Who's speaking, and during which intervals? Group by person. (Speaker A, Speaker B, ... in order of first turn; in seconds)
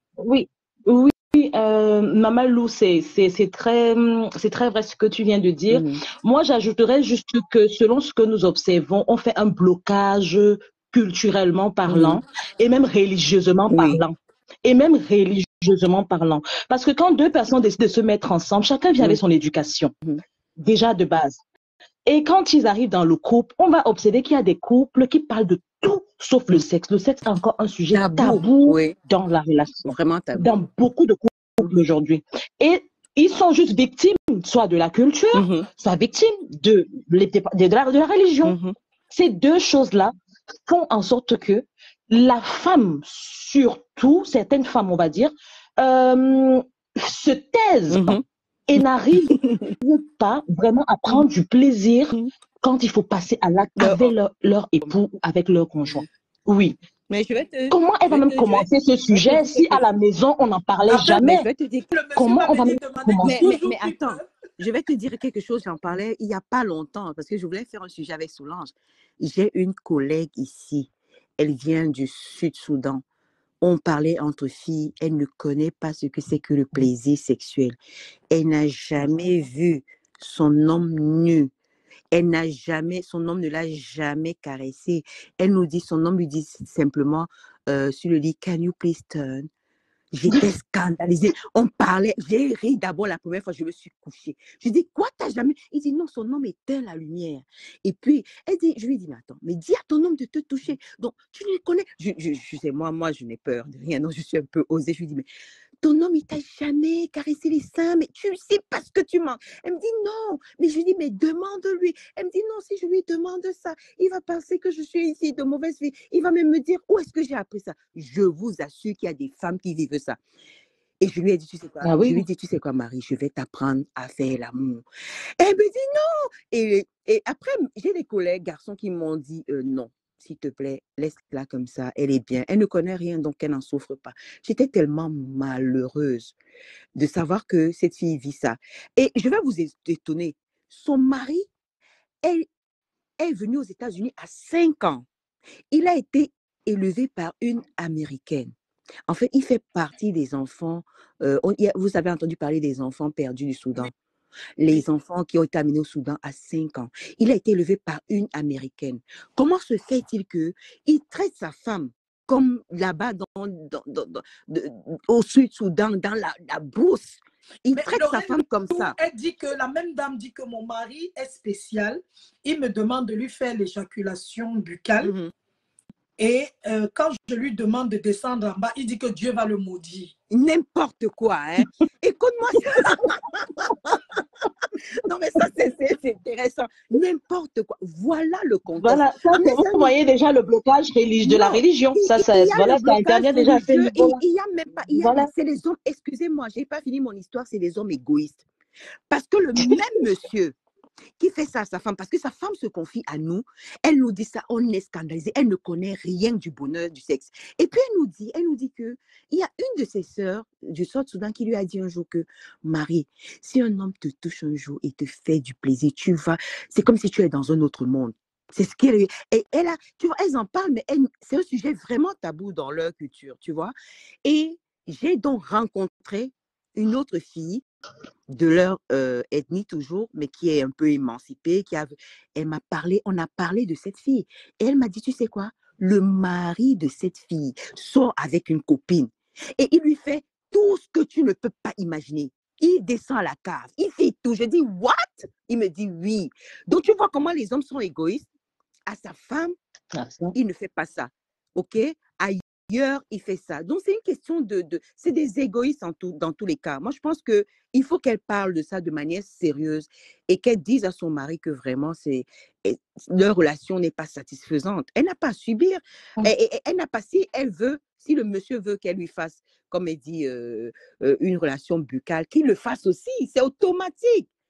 Speaker A: 0.2-19.9, 20.6-21.4, 22.1-38.5, 39.1-40.1, 40.6-56.8, 57.7-61.5, 62.1-63.4, 121.8-122.2, 188.8-194.2, 195.0-195.3, 249.9-250.3
Speaker B: 5.7-6.0, 11.9-12.2, 13.7-14.0, 27.9-28.9, 29.9-30.5, 35.3-35.7, 38.4-38.7, 47.9-48.2, 49.3-49.7, 53.8-54.1, 57.1-59.9, 61.2-61.9, 63.2-73.0, 73.6-77.8, 78.3-81.5, 82.1-89.5, 90.1-105.2, 105.8-120.2, 121.0-124.8, 125.4-136.3, 136.9-141.5, 142.2-142.5, 143.2-145.1, 145.7-148.5, 149.1-153.9, 154.6-168.9, 175.0-175.3, 180.3-184.2, 185.0-189.9, 191.2-198.4, 199.1-200.6, 201.2-223.7, 224.2-227.6, 228.3-248.3, 248.9-249.5, 250.3-274.3
Speaker C: 60.9-61.2, 61.9-64.2, 167.7-175.1, 176.2-180.1